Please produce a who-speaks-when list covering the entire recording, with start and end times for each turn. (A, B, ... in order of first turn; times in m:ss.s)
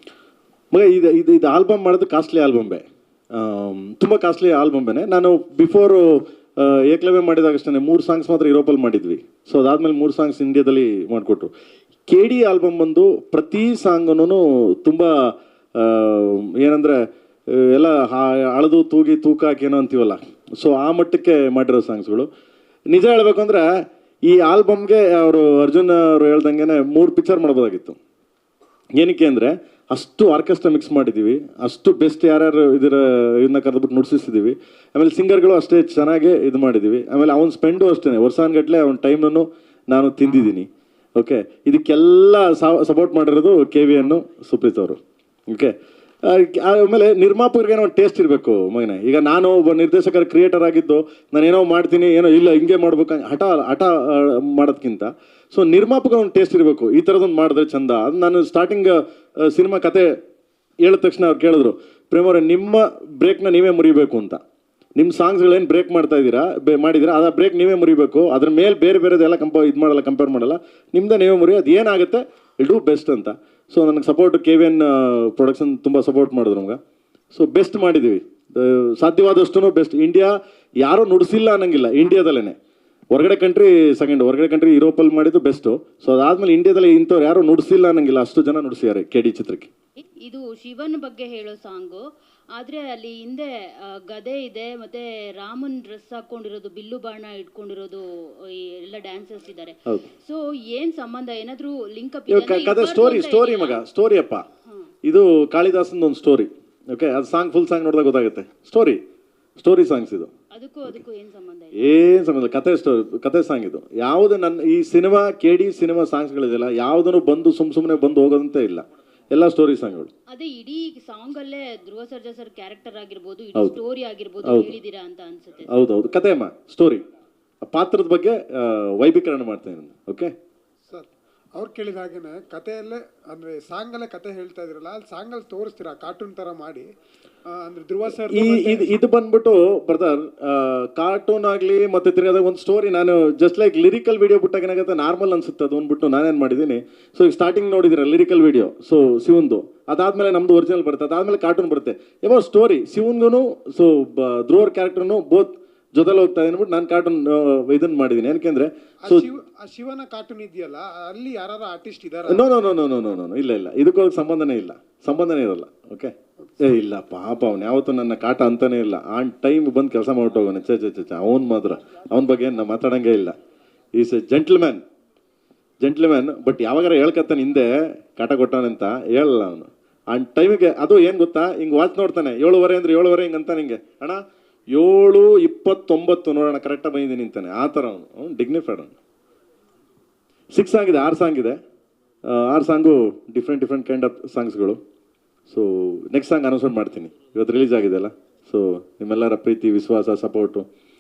0:00.7-0:11.5 A
0:12.1-0:22.3 A
0:22.9-0:23.7 A
0:24.2-0:28.0 A
0:29.0-1:00.1 A
1:00.8-1:04.4 A
1:05.0-1:16.8 A
1:17.3-1:22.6 A
1:23.1-1:29.7 A
1:30.2-1:43.8 B
1:42.3-1:44.4 A
1:45.0-1:49.0 A
1:49.6-1:50.3 A
1:50.5-1:51.9 B
1:51.8-2:00.1 A
2:00.3-2:05.8 B
2:04.4-2:04.7 A
2:05.7-2:07.0 A
2:07.6-2:10.3 A
2:10.9-2:16.9 C
2:17.5-2:18.9 C
2:18.1-2:39.3 A
2:39.0-2:42.4 C
2:42.3-2:53.4 A
2:54.0-2:54.8 A
2:55.8-3:09.0 A
3:10.5-3:11.6 A
3:12.3-3:14.8 A
3:15.5-3:20.7 A